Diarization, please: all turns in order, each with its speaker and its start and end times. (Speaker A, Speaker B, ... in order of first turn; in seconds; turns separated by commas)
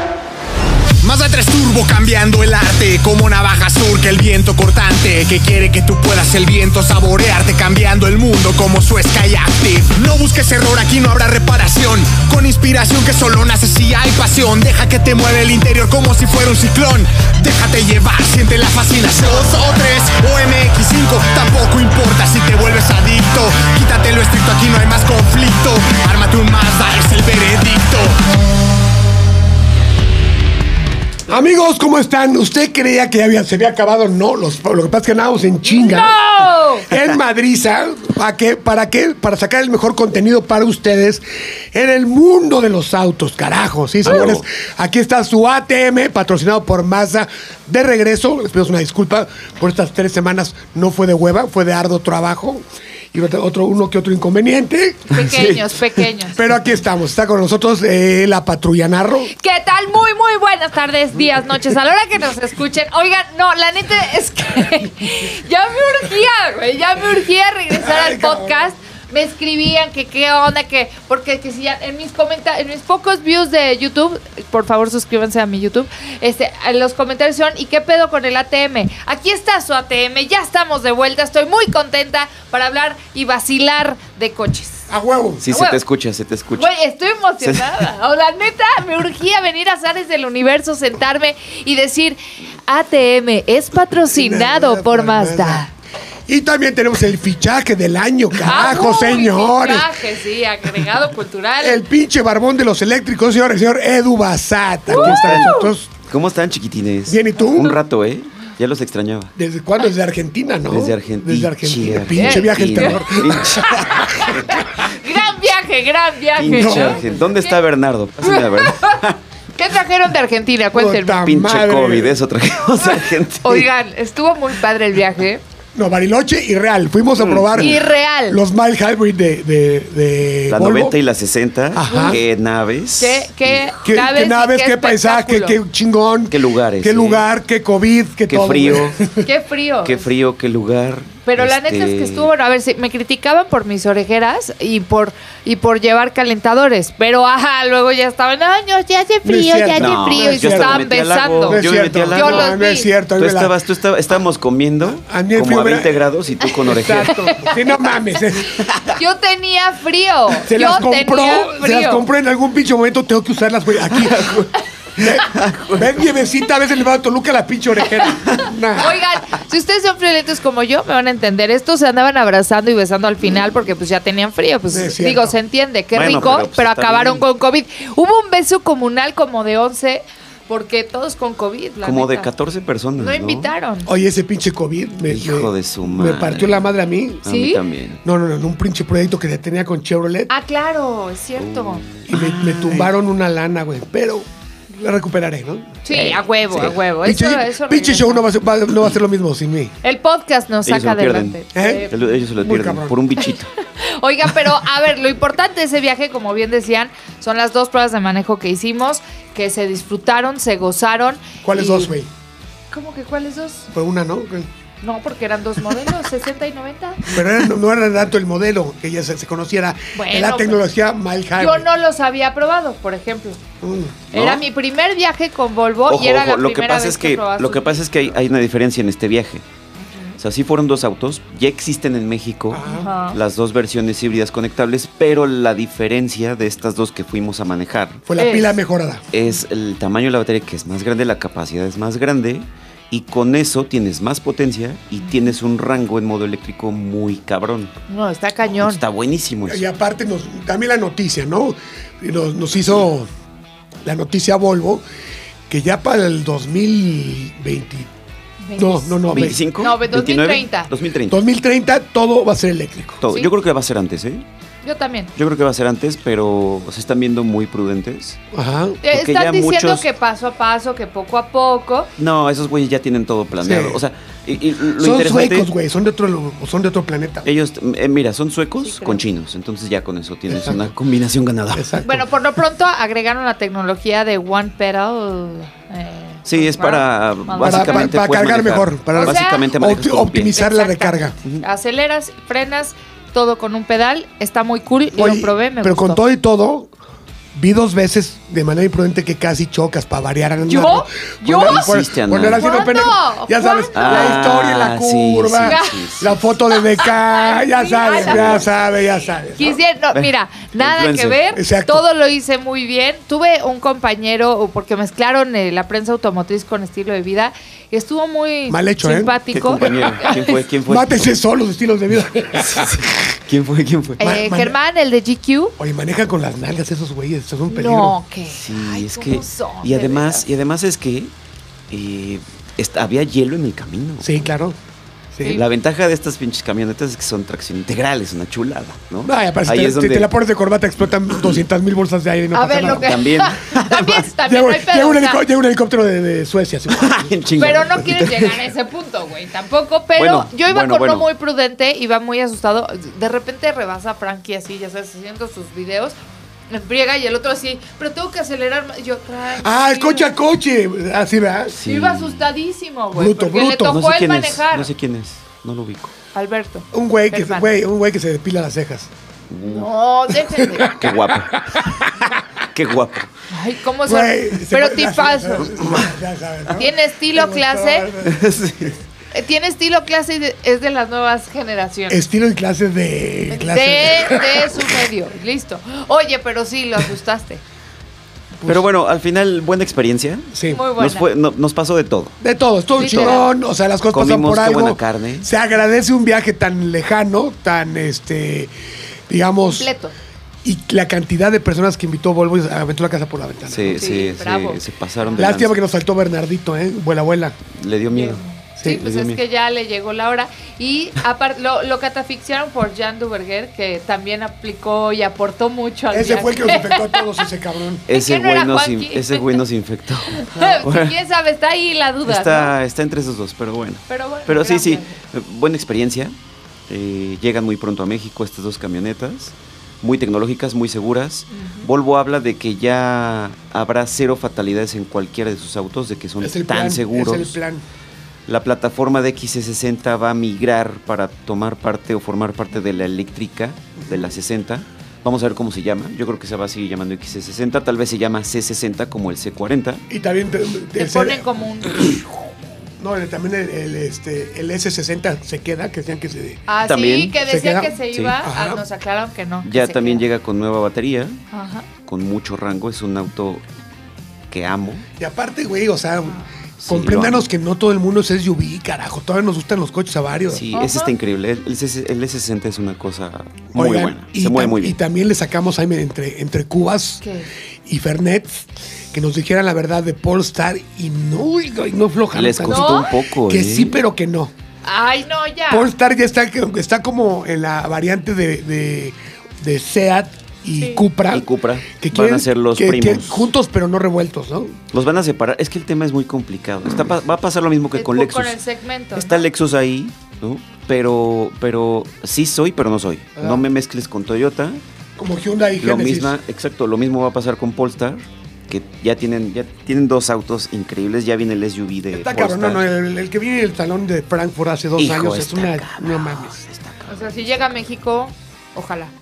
Speaker A: 1.0-28.2, Speaker B: 31.3-36.2, Speaker C: 35.6-36.9, Speaker B: 36.8-55.6, Speaker D: 44.0-44.4, Speaker C: 55.1-56.4, Speaker B: 56.3-59.3, Speaker C: 59.3-84.9, Speaker B: 67.7-68.6, Speaker B: 84.9-85.4, Speaker D: 85.4-86.7, Speaker C: 85.5-85.8, Speaker C: 86.5-95.7, Speaker D: 87.4-87.8, Speaker B: 94.1-95.7, Speaker B: 96.3-99.9, Speaker C: 98.4-101.8, Speaker B: 101.6-105.9, Speaker D: 104.9-109.3, Speaker C: 104.9-105.7, Speaker B: 107.1-107.8, Speaker B: 109.3-114.5, Speaker D: 110.7-114.6, Speaker C: 112.1-117.5, Speaker D: 116.4-119.2, Speaker B: 116.5-117.1, Speaker C: 118.2-119.0, Speaker C: 119.5-121.3, Speaker B: 120.7-122.2, Speaker D: 121.2-123.7, Speaker C: 122.8-125.4, Speaker B: 125.7-130.9, Speaker D: 127.1-127.8, Speaker C: 127.5-128.4, Speaker D: 130.5-133.7, Speaker B: 131.7-132.2, Speaker C: 131.8-132.2, Speaker C: 133.0-135.6, Speaker B: 133.8-139.3, Speaker D: 136.3-137.2, Speaker D: 138.3-139.0, Speaker C: 139.2-140.1, Speaker D: 139.8-142.3, Speaker C: 141.2-151.6, Speaker B: 149.2-150.9, Speaker D: 149.8-152.6, Speaker B: 151.4-153.6, Speaker C: 152.1-152.9, Speaker D: 153.2-157.2, Speaker B: 154.8-158.6, Speaker C: 157.1-157.9, Speaker D: 158.5-159.0, Speaker C: 158.8-162.0, Speaker B: 160.4-169.0, Speaker D: 163.9-164.4, Speaker D: 165.0-166.1, Speaker C: 168.0-182.3, Speaker B: 174.7-175.3, Speaker D: 175.9-177.2, Speaker D: 181.8-183.5, Speaker C: 183.0-183.9, Speaker B: 183.8-187.2, Speaker D: 185.1-186.7, Speaker D: 187.2-188.0, Speaker C: 187.2-187.6, Speaker B: 188.0-190.3, Speaker C: 190.3-191.8, Speaker D: 191.4-192.9, Speaker B: 192.1-195.8, Speaker C: 195.8-198.2, Speaker D: 195.9-196.8, Speaker B: 197.0-199.7, Speaker C: 199.8-202.0, Speaker D: 200.6-203.5, Speaker B: 201.5-203.0, Speaker C: 203.2-211.9, Speaker B: 211.4-212.1, Speaker C: 212.7-213.7, Speaker B: 213.7-214.5, Speaker C: 214.8-217.2, Speaker B: 217.1-221.7, Speaker C: 219.9-220.6, Speaker C: 221.4-223.4, Speaker B: 223.6-224.1, Speaker D: 224.1-224.4, Speaker C: 224.1-227.8, Speaker D: 225.9-229.4, Speaker C: 229.8-230.2, Speaker D: 230.2-238.0, Speaker B: 232.5-232.9, Speaker C: 232.7-233.2, Speaker B: 238.1-239.0, Speaker C: 238.2-238.6, Speaker D: 239.1-247.7, Speaker C: 247.9-248.8, Speaker D: 248.5-249.6, Speaker B: 249.4-253.1, Speaker B: 253.8-254.8, Speaker B: 255.5-257.9, Speaker C: 258.4-260.7, Speaker B: 258.6-259.4, Speaker D: 259.1-261.2, Speaker B: 261.1-263.0, Speaker D: 263.0-264.2, Speaker C: 263.1-263.3, Speaker C: 264.6-265.1, Speaker D: 265.1-268.2, Speaker B: 268.3-268.8, Speaker C: 268.8-271.9, Speaker D: 268.9-269.8, Speaker D: 272.0-275.5, Speaker B: 273.4-273.8, Speaker B: 274.8-277.3, Speaker D: 277.2-281.8, Speaker C: 278.6-279.0, Speaker B: 280.3-280.7, Speaker B: 281.5-282.0, Speaker C: 281.8-287.9, Speaker D: 286.2-290.4, Speaker B: 287.4-291.1, Speaker C: 288.9-289.5, Speaker C: 290.3-296.0, Speaker B: 294.9-296.7, Speaker B: 297.3-309.6, Speaker C: 300.5-301.7, Speaker D: 301.4-302.6, Speaker C: 302.4-304.2, Speaker D: 303.7-306.2, Speaker C: 305.5-305.9, Speaker C: 306.7-308.5, Speaker D: 307.9-308.6, Speaker C: 309.4-320.4, Speaker D: 309.9-311.2, Speaker B: 311.3-311.8, Speaker B: 318.5-319.9, Speaker D: 319.3-320.9, Speaker B: 320.6-323.0, Speaker D: 322.5-324.1, Speaker B: 324.0-324.6, Speaker C: 324.0-325.6, Speaker B: 325.6-327.9, Speaker C: 327.5-330.2, Speaker D: 328.3-331.1, Speaker D: 331.7-334.1, Speaker B: 334.0-334.6, Speaker B: 335.1-335.4, Speaker C: 335.2-335.5, Speaker D: 335.3-340.1, Speaker B: 339.0-342.9, Speaker C: 342.3-345.2, Speaker D: 342.7-344.1, Speaker B: 344.2-347.6, Speaker D: 346.7-348.5, Speaker C: 347.4-355.9, Speaker D: 350.0-351.1, Speaker C: 356.5-360.1, Speaker B: 359.4-361.6, Speaker D: 361.5-362.3, Speaker C: 361.6-364.7, Speaker B: 362.9-363.8, Speaker D: 363.6-365.9, Speaker C: 366.1-367.5, Speaker B: 366.7-368.9, Speaker D: 369.3-369.7, Speaker C: 369.4-370.8, Speaker B: 370.4-372.1, Speaker D: 370.6-371.6, Speaker D: 372.5-373.1, Speaker C: 373.3-375.6, Speaker B: 373.8-378.7, Speaker C: 376.5-377.9, Speaker D: 378.0-378.8, Speaker C: 379.1-382.0, Speaker B: 381.9-384.7, Speaker C: 383.3-387.4, Speaker D: 388.4-392.2, Speaker B: 390.3-390.6, Speaker C: 390.5-391.1, Speaker B: 392.2-398.5, Speaker C: 392.8-393.3, Speaker D: 392.9-393.1, Speaker D: 393.9-395.3, Speaker B: 399.1-399.7, Speaker C: 399.5-399.9, Speaker B: 400.4-403.9, Speaker D: 403.4-405.6, Speaker C: 403.8-405.3, Speaker B: 405.2-407.4, Speaker D: 407.5-409.2, Speaker C: 407.9-417.2, Speaker B: 415.9-417.9, Speaker D: 417.9-420.9, Speaker C: 417.9-419.4, Speaker C: 420.1-422.5, Speaker D: 422.1-426.1, Speaker C: 423.9-425.0, Speaker D: 426.7-437.4, Speaker C: 431.3-431.7, Speaker B: 436.2-437.6, Speaker D: 438.3-449.8, Speaker B: 443.8-444.1, Speaker B: 449.9-452.1, Speaker C: 450.8-452.0, Speaker B: 452.8-456.4, Speaker C: 456.5-460.1, Speaker D: 456.6-457.2, Speaker B: 457.2-458.6, Speaker D: 459.4-461.2, Speaker C: 461.3-461.7, Speaker D: 461.9-463.4, Speaker D: 464.3-464.9, Speaker B: 465.0-470.5, Speaker D: 466.6-467.3, Speaker D: 470.3-474.8, Speaker C: 470.5-470.9, Speaker B: 473.5-477.0, Speaker C: 477.0-477.3, Speaker B: 477.6-484.3, Speaker D: 482.1-483.7, Speaker C: 482.5-482.9, Speaker C: 484.6-485.7, Speaker B: 485.5-494.6, Speaker C: 490.5-490.9, Speaker D: 491.1-493.3, Speaker D: 494.7-498.4, Speaker C: 497.7-499.2, Speaker D: 498.9-504.6, Speaker B: 503.2-503.4, Speaker B: 505.0-506.1, Speaker D: 505.6-512.7, Speaker B: 511.9-516.4, Speaker D: 514.8-517.6, Speaker C: 516.9-518.9